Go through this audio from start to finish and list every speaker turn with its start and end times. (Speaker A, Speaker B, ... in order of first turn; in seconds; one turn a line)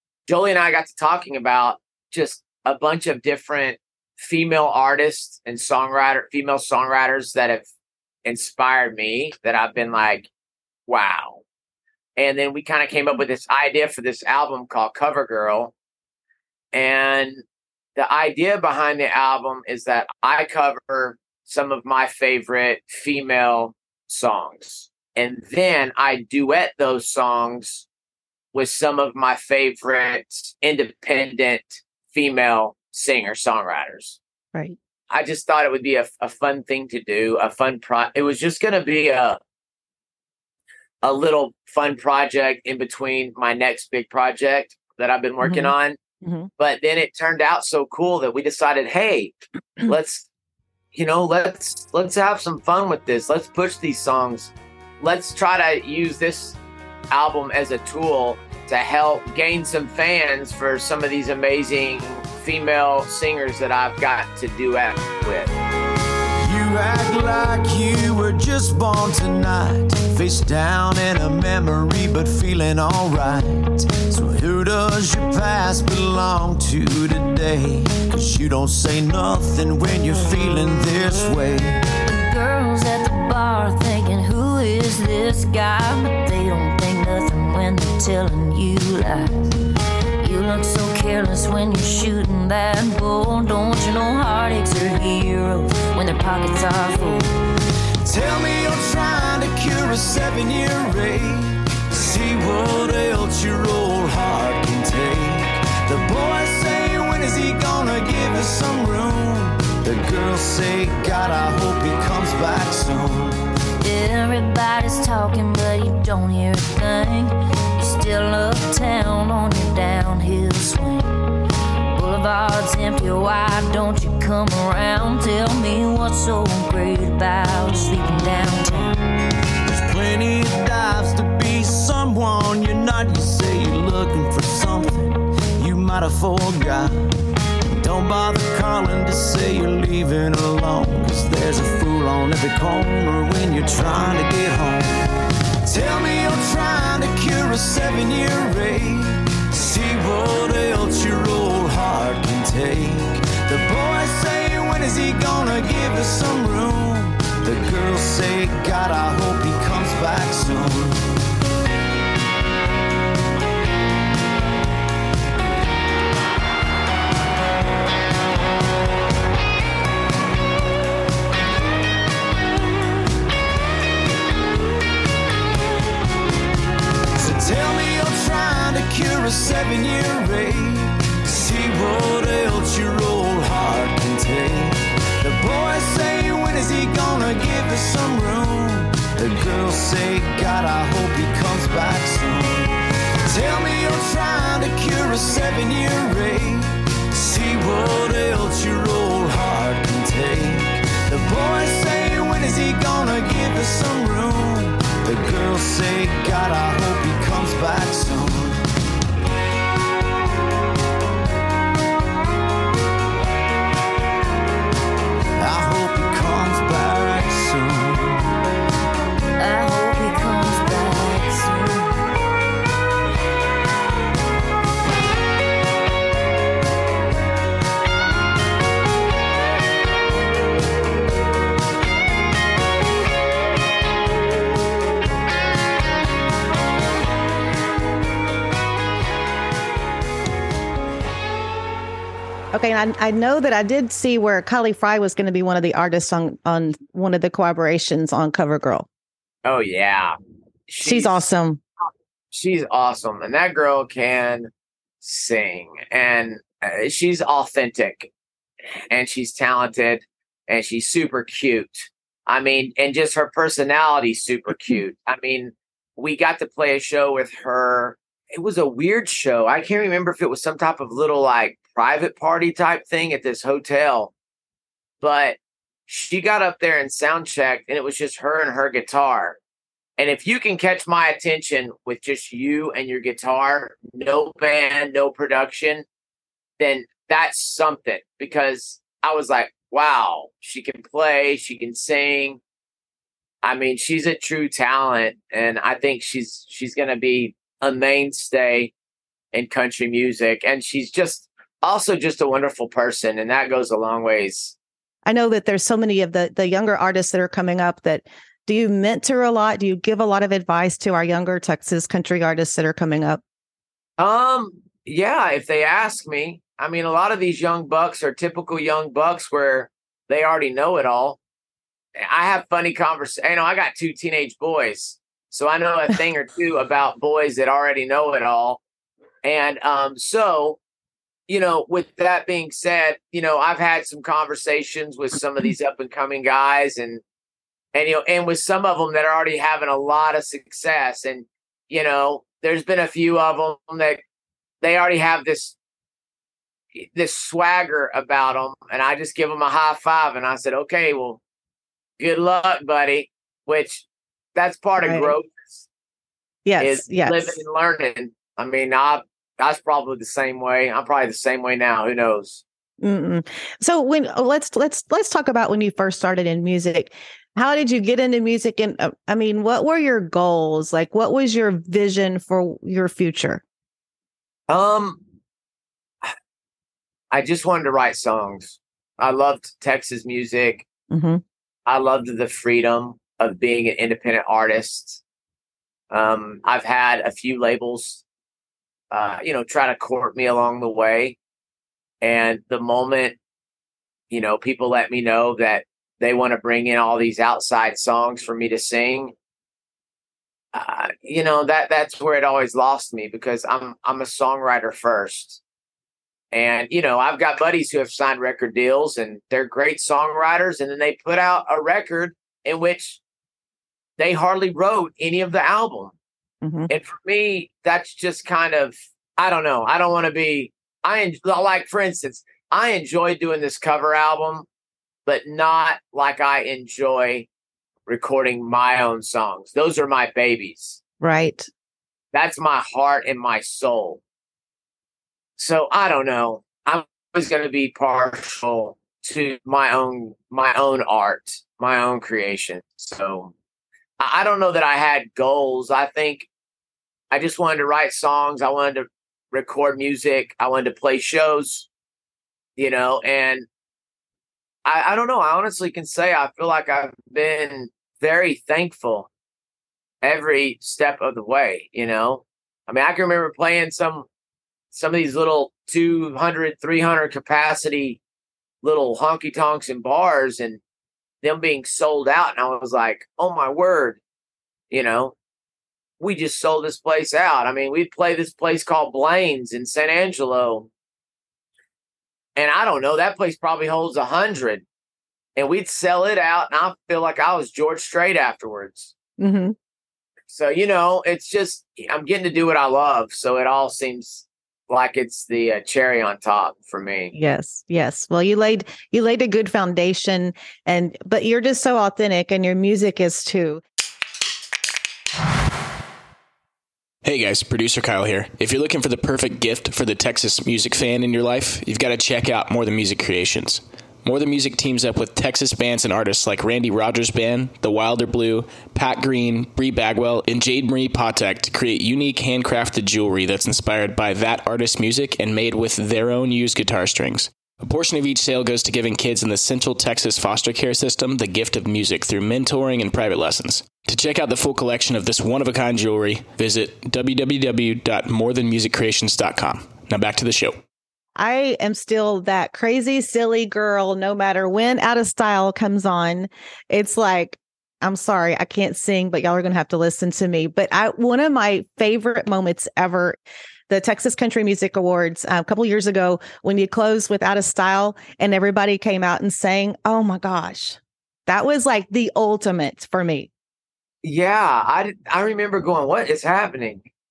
Speaker A: 0.3-7.7
Speaker A: 8.2-10.3
Speaker A: 10.9-11.4
Speaker A: 12.2-15.7
Speaker A: 16.7-17.4
Speaker A: 18.0-27.9
Speaker A: 28.5-34.2
Speaker A: 35.1-39.4
Speaker A: 41.0-46.0
Speaker B: 45.4-46.5
Speaker A: 46.6-50.3
Speaker A: 50.9-56.6
Speaker A: 57.1-65.5
Speaker C: 66.4-81.8
Speaker D: 82.1-89.5
Speaker D: 90.2-97.3
Speaker C: 98.0-113.4
Speaker D: 113.8-121.1
Speaker D: 121.9-129.0
Speaker C: 129.7-137.1
Speaker C: 137.7-145.0
Speaker C: 145.6-161.0
Speaker C: 177.2-208.6
Speaker C: 215.4-218.2
Speaker D: 219.4-221.9
Speaker B: 242.5-248.9
Speaker A: 249.4-250.2
Speaker A: 250.7-251.3
Speaker B: 250.8-251.6
Speaker A: 252.3-254.5
Speaker A: 255.0-258.1
Speaker A: 258.9-274.1
Speaker A: 275.0-279.4
Speaker A: 280.0-285.9
Speaker A: 286.6-292.4
Speaker A: 293.4-298.7
Speaker A: 299.3-304.6
Speaker B: 305.1-313.2
Speaker A: 314.0-321.2
Speaker A: 322.0-328.6
Speaker A: 329.2-330.6
Speaker A: 331.3-337.0
Speaker A: 337.7-344.0
Speaker A: 344.6-345.6
Speaker A: 346.7-351.2
Speaker A: 352.0-355.7
Speaker B: 354.8-355.1
Speaker B: 356.4-357.4
Speaker A: 356.6-362.4
Speaker B: 362.8-373.4
Speaker A: 374.5-375.0
Speaker A: 377.1-380.6
Speaker B: 380.9-381.2
Speaker A: 381.7-385.0
Speaker A: 385.9-388.0
Speaker A: 388.9-391.2
Speaker A: 392.0-393.2
Speaker A: 394.1-399.1
Speaker A: 400.5-405.4
Speaker A: 406.3-413.0
Speaker A: 414.0-415.9
Speaker B: 416.4-416.7
Speaker A: 416.7-424.5
Speaker A: 425.1-427.3
Speaker A: 427.9-430.8
Speaker B: 431.0-431.5
Speaker A: 432.1-434.0
Speaker A: 435.4-443.3
Speaker A: 444.0-446.3
Speaker A: 447.1-451.7
Speaker A: 452.6-453.5
Speaker A: 454.6-459.1
Speaker A: 460.0-464.1
Speaker A: 464.7-468.0
Speaker A: 468.6-470.6
Speaker A: 471.2-474.0
Speaker A: 474.7-475.1
Speaker A: 476.0-480.7
Speaker A: 482.4-484.6
Speaker A: 485.4-488.9
Speaker B: 489.2-489.6
Speaker A: 490.3-497.1
Speaker B: 497.1-503.6
Speaker E: 507.0-540.6
Speaker B: 541.2-553.2
Speaker B: 553.7-563.3
Speaker A: 564.0-566.9